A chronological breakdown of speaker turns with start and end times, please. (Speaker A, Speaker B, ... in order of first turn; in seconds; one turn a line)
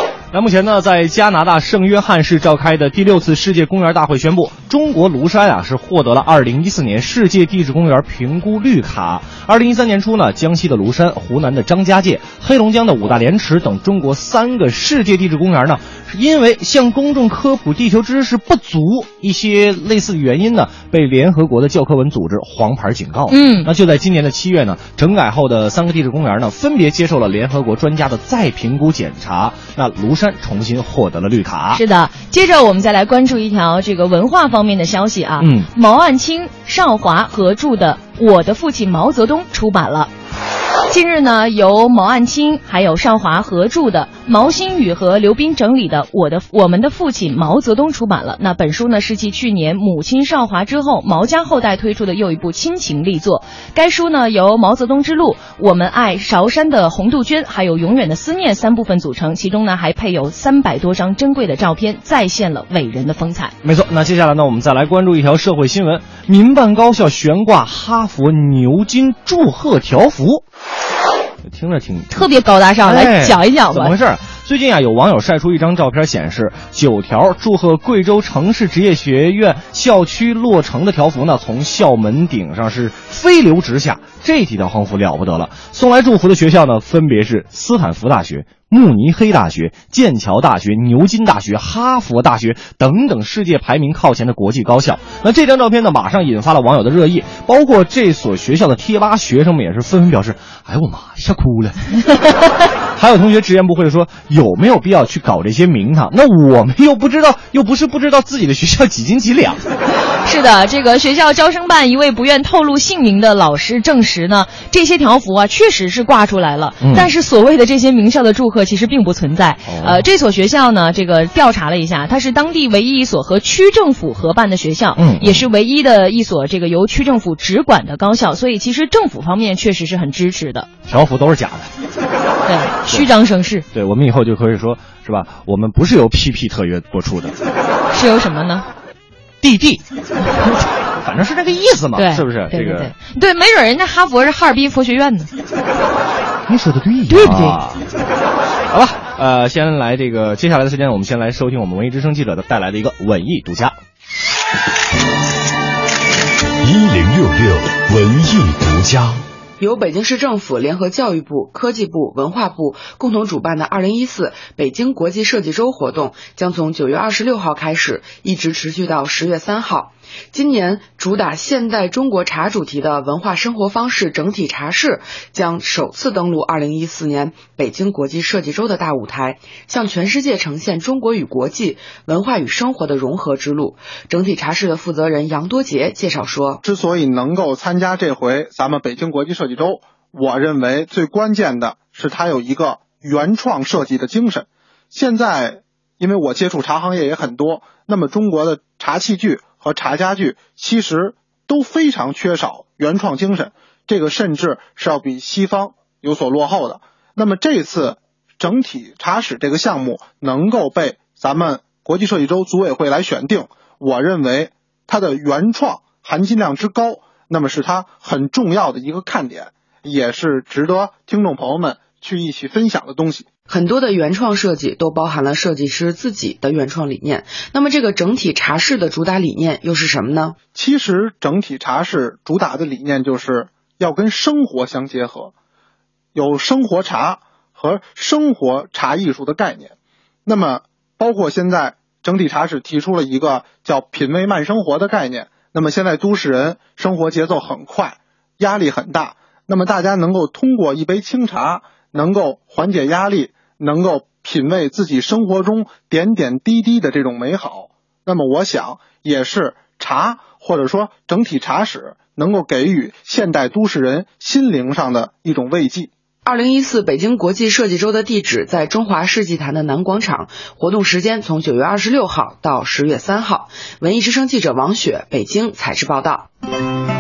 Speaker A: 0.3-31.8
Speaker B: 23.3-23.7
Speaker B: 31.7-40.1
Speaker A: 35.4-35.7
Speaker B: 40.9-63.5
Speaker A: 63.6-70.4
Speaker A: 71.4-72.3
Speaker B: 72.1-73.9
Speaker A: 72.8-101.8
Speaker A: 103.0-109.6
Speaker B: 110.2-130.7
Speaker A: 116.8-117.1
Speaker A: 119.7-120.0
Speaker A: 125.0-125.4
Speaker A: 130.9-131.7
Speaker B: 132.4-133.7
Speaker A: 133.7-137.3
Speaker B: 137.9-138.7
Speaker A: 139.4-139.8
Speaker A: 141.0-142.9
Speaker B: 141.9-145.3
Speaker A: 146.5-147.8
Speaker B: 147.1-147.6
Speaker A: 148.7-153.8
Speaker C: 156.6-159.2
Speaker D: 159.6-186.6
Speaker E: 186.6-223.3
Speaker D: 223.5-230.4
Speaker E: 230.5-235.3
Speaker E: 236.2-239.7
Speaker E: 240.2-265.9
Speaker D: 266.2-276.3